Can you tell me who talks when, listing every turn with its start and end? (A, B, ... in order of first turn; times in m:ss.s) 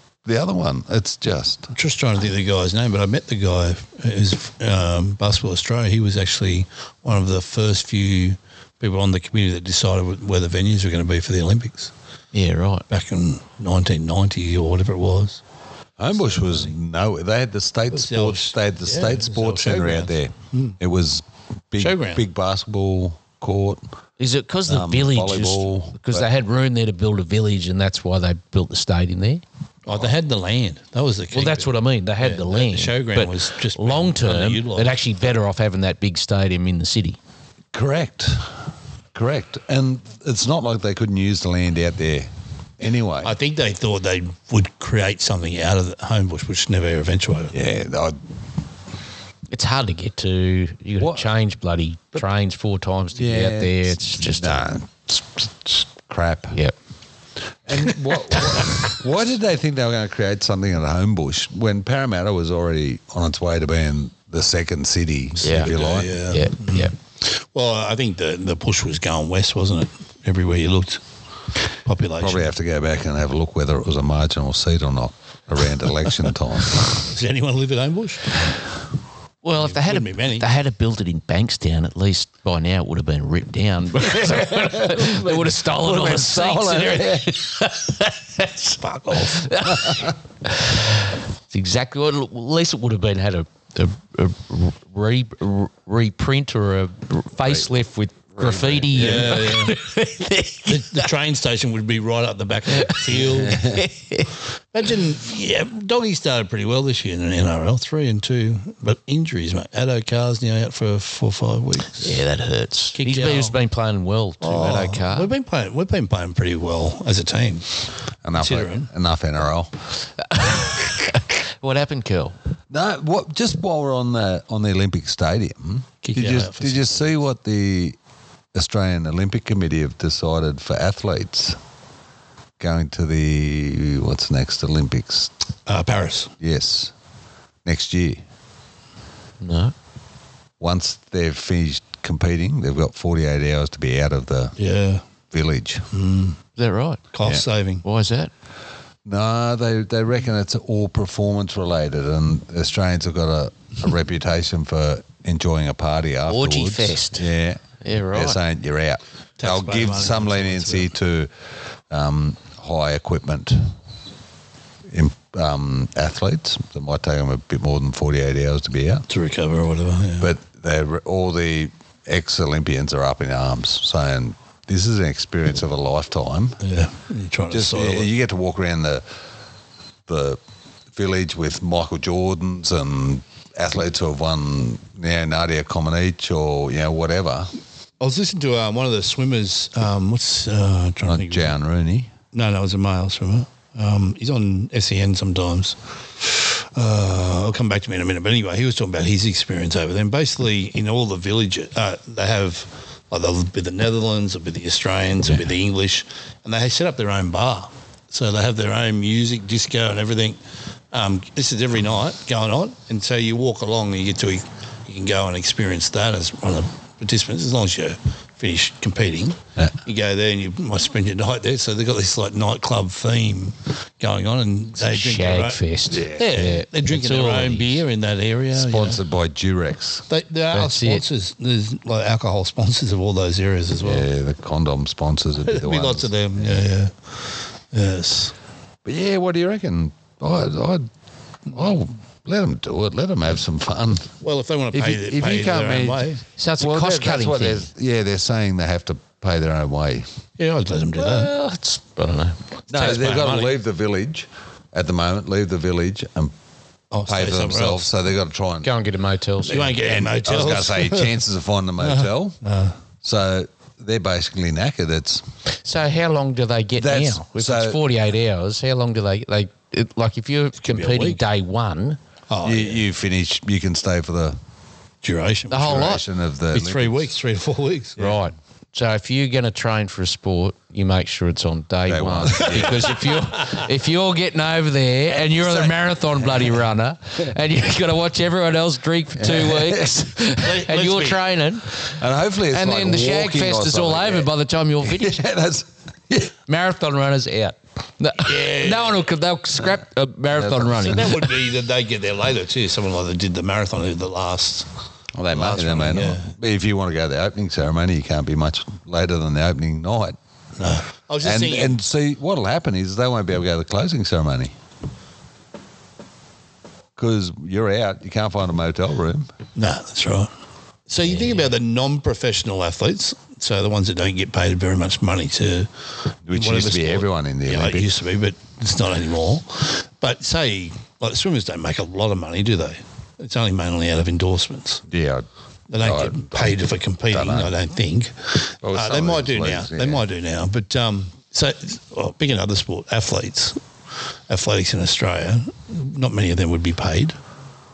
0:00.2-0:01.7 A
0:01.7-0:11.9 B
0:12.3-0:12.8 C
0:12.9-0:15.4 B
0:16.0-0:23.8 A
0:16.3-0:16.7 B
0:17.9-0:20.8 B
0:21.8-0:22.2 B
0:24.2-0:29.4 C
0:24.7-0:26.3 A
0:29.9-0:34.9 B
0:31.3-0:37.2 C
0:37.7-0:38.6 A
0:39.1-0:43.4 A
0:43.2-0:47.6 B
0:47.5-0:48.2 A
0:49.5-0:54.6 C
0:51.0-0:51.3 A
0:53.2-0:56.6 A
0:57.7-1:06.1 A
1:05.4-1:11.0 B
1:05.4-1:06.9 C
1:11.8-1:12.5 B
1:12.2-1:17.1 A
1:16.9-1:18.4 B
1:19.4-1:41.1 C
1:19.6-1:20.5 B
1:24.1-1:27.3 A
1:28.8-1:29.5 B
1:29.7-1:30.1 A
1:37.4-1:37.7 A
1:38.4-1:39.5 A
1:38.9-1:39.8 B
1:40.7-1:43.6 B
1:42.8-1:44.3 C
1:43.3-1:43.8 A
1:44.7-1:52.2 B
1:52.0-1:55.3 C
1:53.0-1:53.6 B
1:54.4-1:58.9 B
1:58.2-1:59.7 A
2:00.2-2:02.4 C
2:02.7-2:08.0 A
2:06.0-2:07.0 B
2:08.5-2:11.6 A
2:12.6-2:15.3 A
2:15.7-2:16.3 B
2:16.4-2:16.9 A
2:17.6-2:18.2 A
2:19.4-2:19.7 C
2:20.6-2:24.6 A
2:24.6-2:25.0 B
2:25.3-2:25.9 A
2:25.9-2:26.4 B
2:26.6-2:27.0 C
2:27.1-2:27.8 B
2:27.8-2:28.3 C
2:29.0-2:43.7 A
2:36.3-2:37.3 C
2:37.8-2:38.4 C
2:39.4-2:40.9 B
2:44.9-2:49.1 A
2:49.1-2:50.3 B
2:50.2-2:56.6 A
2:56.6-2:58.1 B
2:57.5-2:59.0 A
3:00.1-3:00.4 A
3:00.9-3:07.5 A
3:08.0-3:11.5 B
3:11.0-3:12.1 A
3:12.3-3:30.4 B
3:30.9-3:45.6 B
3:44.8-3:47.8 C
3:45.9-3:46.5 A
3:46.1-3:49.0 B
3:48.5-3:50.1 A
3:50.1-3:54.1 B
3:50.5-3:51.0 C
3:53.8-3:56.1 A
3:55.4-3:58.3 B
3:58.8-4:00.9 A
4:01.5-4:04.1 A
4:04.2-4:06.2 B
4:04.7-4:10.1 A
4:06.4-4:07.7 C
4:10.4-4:11.3 B
4:11.0-4:12.4 C
4:12.7-4:16.3 A
4:12.7-4:13.6 B
4:16.9-4:17.9 B
4:17.1-4:18.7 A
4:18.6-4:19.7 C
4:19.4-4:22.4 A
4:19.5-4:21.2 B
4:21.8-4:22.8 B
4:23.0-4:25.2 A
4:25.6-4:32.0 C
4:26.8-4:27.8 A
4:30.6-4:31.2 B
4:32.3-4:32.8 B
4:32.4-4:34.4 A
4:35.0-4:36.0 B
4:35.5-4:36.0 C
4:35.5-4:37.1 A
4:36.5-4:38.0 B
4:38.0-4:52.0 C
4:41.9-4:43.0 A
4:42.4-4:43.5 B
4:45.3-4:46.5 A
4:49.2-4:50.0 A
4:50.4-4:51.3 B
4:51.9-4:54.3 A
4:52.5-4:55.2 C
4:54.8-4:56.3 A
4:56.5-5:01.3 C
4:58.2-4:59.1 B
5:00.4-5:01.1 A
5:00.8-5:04.7 B
5:05.2-5:10.2 A
5:05.3-5:06.3 B
5:10.6-5:11.8 B
5:11.2-5:14.5 A
5:17.0-5:19.3 A
5:19.6-5:20.3 B
5:20.9-5:25.7 B
5:21.0-5:21.5 C
5:26.3-5:27.9 A
5:26.3-5:34.8 B
5:34.9-5:35.3 A
5:35.7-5:43.6 B
5:35.8-5:37.6 A
5:38.6-5:40.0 A
5:44.3-5:47.2 B